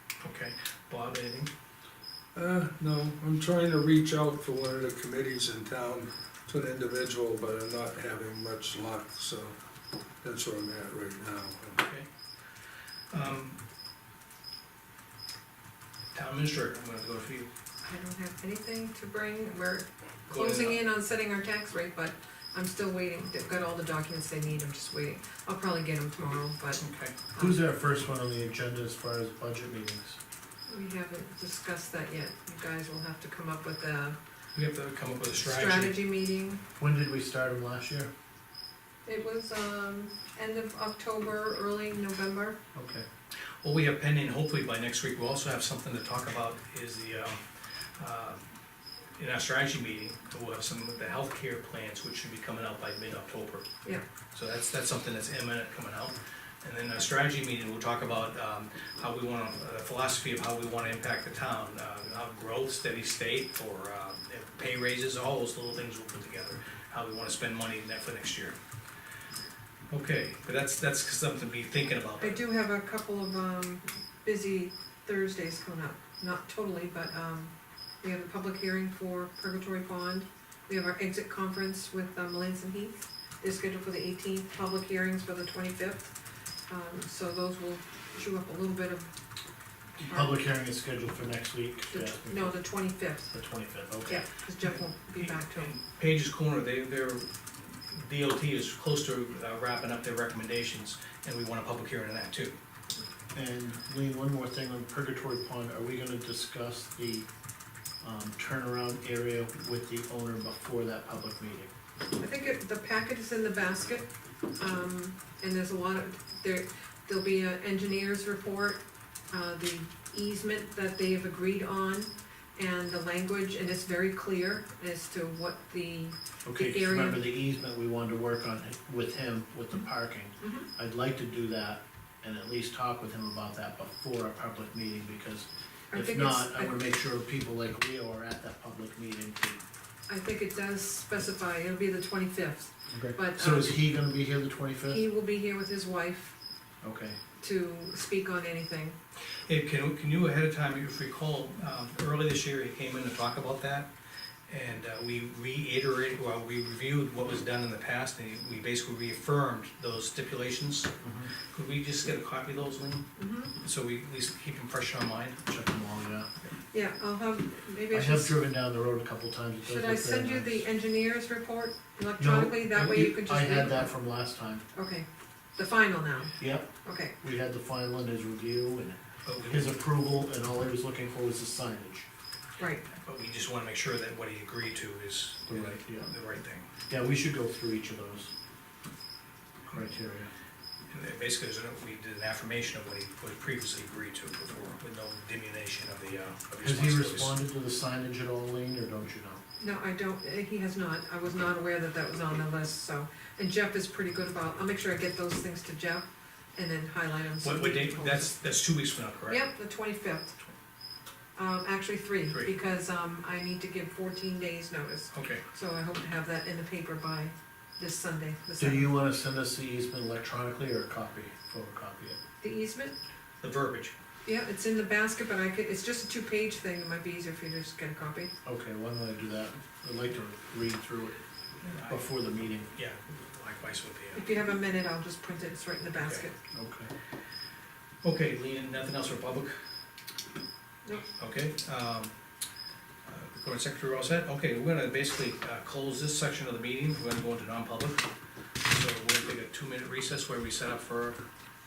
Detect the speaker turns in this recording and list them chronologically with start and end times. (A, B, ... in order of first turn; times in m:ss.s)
0:00.2-0:01.5 A
0:02.3-0:09.5 B
0:10.2-0:11.8 B
0:11.8-0:12.0 A
0:13.1-0:13.6 A
0:16.1-0:17.5 A
0:17.8-0:27.6 C
0:20.3-0:20.8 A
0:26.8-0:27.1 A
0:27.4-0:30.2 D
0:30.7-0:34.2 C
0:34.5-0:36.0 A
0:35.4-0:36.6 C
0:36.8-0:38.1 D
0:39.0-0:42.6 C
0:42.7-0:43.0 D
0:43.6-0:47.4 A
0:48.0-0:48.4 A
0:49.2-0:53.6 A
0:54.3-1:08.6 A
1:09.9-1:12.4 A
1:12.2-1:26.1 C
1:26.7-1:29.1 C
1:30.0-1:32.7 D
1:30.0-1:30.3 C
1:31.9-1:33.3 C
1:33.3-1:34.2 D
1:34.1-1:35.7 C
1:34.6-1:37.3 A
1:37.9-1:42.5 A
1:43.3-1:47.2 D
1:48.0-1:51.7 D
1:52.2-1:58.8 C
1:59.3-2:07.2 C
2:06.4-2:19.6 D
2:10.4-2:10.6 C
2:15.9-2:16.8 C
2:20.1-2:23.8 C
2:22.9-2:25.0 D
2:24.9-2:26.4 C
2:26.8-2:27.2 D
2:27.4-2:29.0 C
2:29.5-2:33.9 A
2:34.5-2:40.9 A
2:41.0-2:41.3 D
2:41.5-2:43.0 A
2:43.2-2:43.5 C
2:43.6-2:45.4 A
2:45.5-2:46.3 D
2:46.7-2:48.4 C
2:47.9-2:50.6 D
2:49.6-2:53.9 C
2:52.2-2:54.6 D
2:54.7-2:57.1 C
2:56.4-3:02.1 D
2:59.2-2:59.8 A
3:02.6-3:02.8 C
3:02.9-3:06.7 A
3:05.5-3:06.1 D
3:06.9-3:08.3 D
3:09.7-3:10.3 D
3:10.9-3:17.4 A
3:16.6-3:19.4 D
3:19.6-3:28.3 C
3:27.4-3:29.5 A
3:29.3-3:30.4 C
3:31.4-3:39.0 C
3:35.1-3:35.4 A
3:38.6-3:42.2 D
3:42.4-3:42.9 C
3:43.4-3:43.9 A
3:44.2-3:48.3 C
3:48.4-3:51.2 D
3:51.6-3:52.1 A
3:51.8-3:52.7 D
3:52.7-3:54.3 A
3:54.1-3:56.4 C
3:56.0-3:56.2 A
3:56.5-3:56.9 D
3:58.0-3:59.5 A
4:01.2-4:02.1 A
4:03.0-4:08.1 A
4:08.6-4:11.2 A